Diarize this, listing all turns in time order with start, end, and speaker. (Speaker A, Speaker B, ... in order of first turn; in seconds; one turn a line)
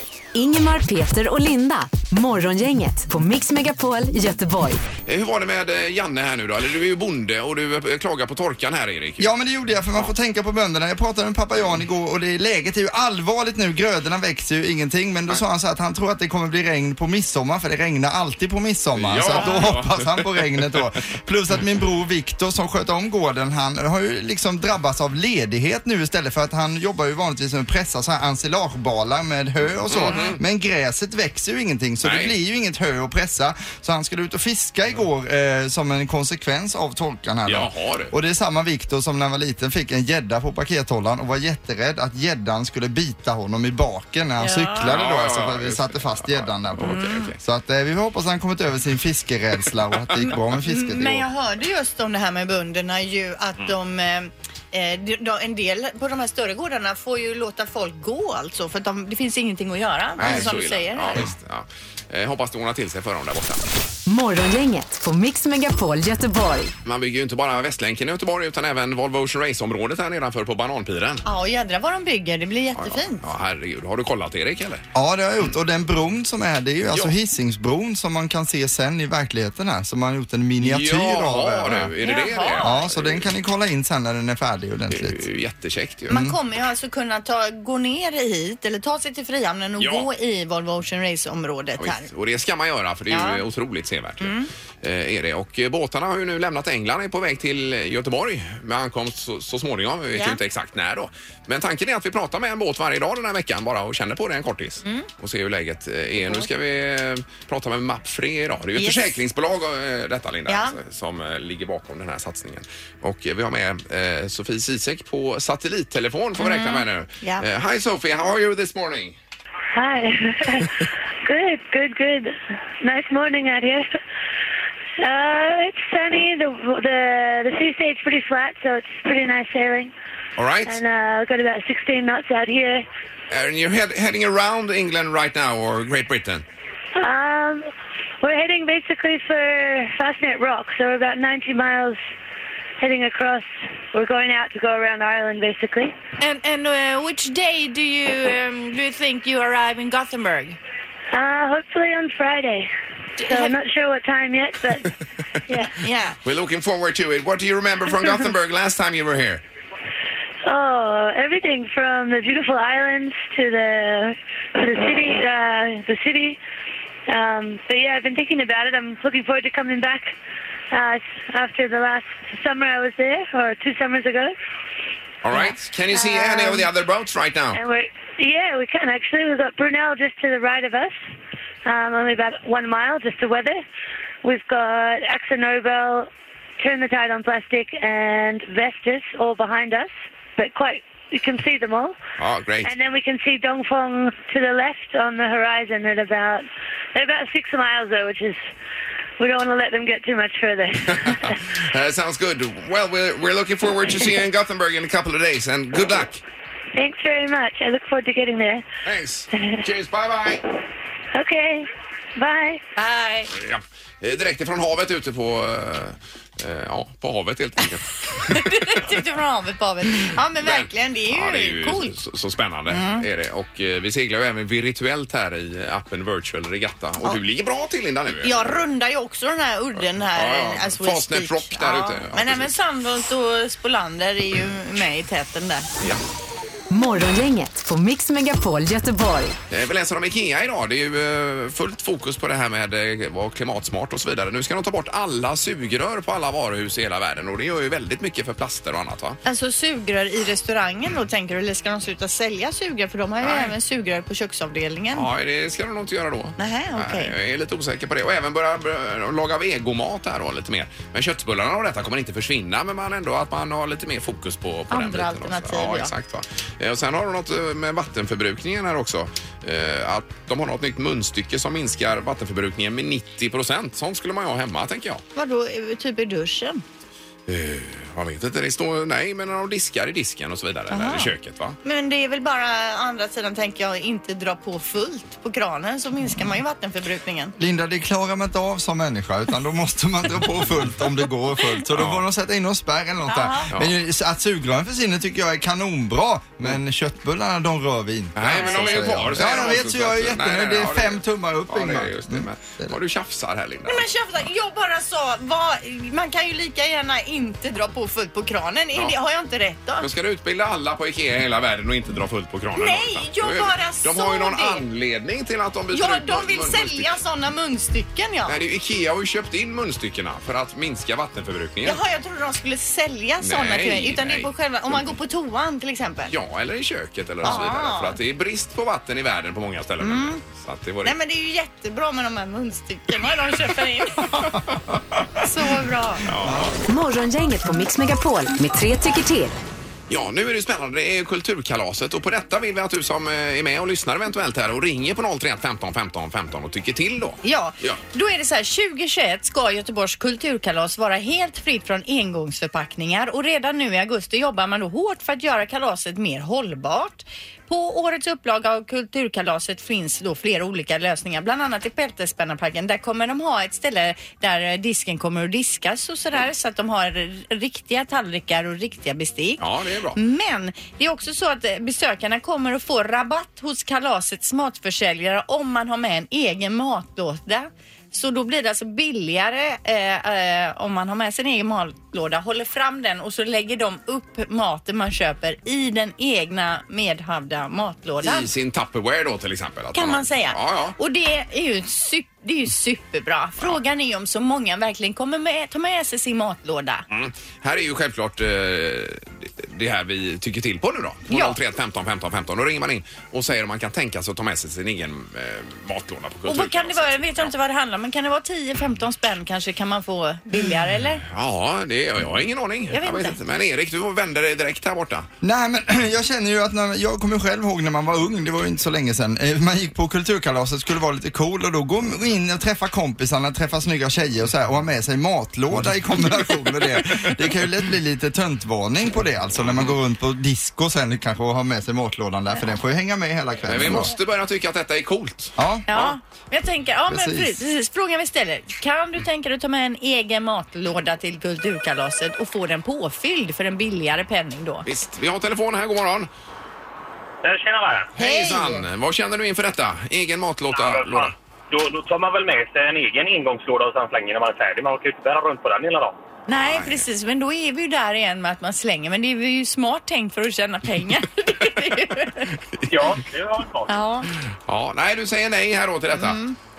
Speaker A: 0.3-4.8
Speaker B: 5.0-9.3
Speaker C: 9.2-51.3
Speaker B: 18.9-20.9
Speaker B: 29.9-30.4
Speaker B: 32.0-32.3
Speaker B: 37.5-38.1
Speaker D: 44.4-45.0
Speaker B: 44.9-47.4
Speaker D: 46.8-47.3
Speaker D: 50.6-61.3
Speaker B: 60.2-63.6
Speaker A: 64.1-66.7
Speaker B: 66.8-71.2
Speaker D: 71.2-73.2
Speaker B: 72.8-74.8
Speaker C: 74.9-81.9
Speaker B: 80.6-83.3
Speaker D: 82.0-82.8
Speaker C: 82.6-85.2
Speaker B: 84.9-86.2
Speaker C: 86.1-86.4
Speaker D: 86.1-92.1
Speaker B: 89.8-90.1
Speaker B: 91.8-119.2
Speaker D: 93.1-93.4
Speaker D: 94.2-94.5
Speaker D: 106.2-106.5
Speaker D: 108.8-109.2
Speaker D: 110.5-110.8
Speaker D: 116.4-117.4
Speaker E: 119.7-123.9
Speaker E: 125.0-129.9
Speaker B: 130.4-130.8
Speaker E: 130.7-132.8
Speaker B: 133.3-136.4
Speaker E: 136.9-137.7
Speaker E: 138.2-142.0
Speaker E: 142.8-145.9
Speaker D: 146.2-150.6
Speaker E: 151.1-152.7
Speaker D: 153.2-153.5
Speaker E: 153.2-154.9
Speaker E: 155.5-155.7
Speaker D: 155.7-156.2
Speaker B: 156.2-159.4
Speaker E: 160.4-166.4
Speaker E: 167.1-170.1
Speaker E: 170.7-174.3
Speaker B: 175.2-177.6
Speaker E: 175.9-176.7
Speaker E: 177.5-180.9
Speaker E: 181.6-183.6
Speaker E: 184.2-191.9
Speaker B: 192.2-192.7
Speaker E: 192.6-198.4
Speaker E: 199.2-201.3
Speaker B: 200.8-206.2
Speaker E: 206.7-208.6
Speaker B: 208.8-210.4
Speaker E: 209.3-209.6
Speaker E: 211.1-212.6
Speaker D: 212.8-213.3
Speaker B: 213.3-218.8
Speaker D: 218.2-221.9
Speaker B: 220.4-228.6
Speaker D: 222.7-223.1
Speaker D: 228.2-235.7
Speaker B: 230.1-232.5
Speaker A: 236.7-239.4
Speaker B: 239.5-249.2
Speaker D: 249.2-255.1
Speaker B: 253.2-253.5
Speaker B: 254.9-275.0
Speaker D: 256.4-257.1
Speaker D: 264.7-265.9
Speaker D: 275.1-276.6
Speaker B: 277.3-281.6
Speaker D: 280.7-287.3
Speaker C: 287.4-302.8
Speaker B: 291.7-292.0
Speaker D: 293.1-293.5
Speaker B: 298.1-303.9
Speaker D: 298.4-298.9
Speaker D: 303.6-309.9
Speaker B: 309.8-316.9
Speaker D: 312.5-314.6
Speaker D: 315.7-318.4
Speaker B: 318.2-321.8
Speaker D: 321.6-326.1
Speaker B: 323.2-324.9
Speaker B: 326.1-330.9
Speaker D: 327.2-328.0
Speaker D: 329.8-330.2
Speaker D: 330.8-334.3
Speaker D: 335.2-336.1
Speaker B: 336.1-336.6
Speaker C: 336.1-336.6
Speaker A: 336.7-339.4
Speaker B: 339.9-347.8
Speaker D: 347.2-369.4
Speaker B: 369.4-370.0
Speaker D: 369.9-388.3
Speaker B: 388.0-390.8
Speaker D: 389.7-396.8
Speaker B: 396.9-407.3
Speaker D: 401.1-401.4
Speaker D: 406.2-411.0
Speaker B: 411.0-415.1
Speaker D: 412.7-413.2
Speaker C: 415.2-433.9
Speaker B: 429.4-429.7
Speaker B: 433.4-435.9
Speaker C: 435.4-435.7
Speaker D: 435.7-444.6
Speaker C: 436.9-437.4
Speaker B: 444.6-446.1
Speaker F: 447.2-447.9
Speaker D: 447.9-448.6
Speaker B: 448.0-451.1
Speaker F: 450.5-456.0
Speaker D: 456.3-462.3
Speaker B: 456.3-456.8
Speaker B: 462.5-462.9
Speaker F: 462.7-463.7
Speaker D: 463.7-464.1
Speaker B: 464.3-466.2
Speaker D: 465.9-466.4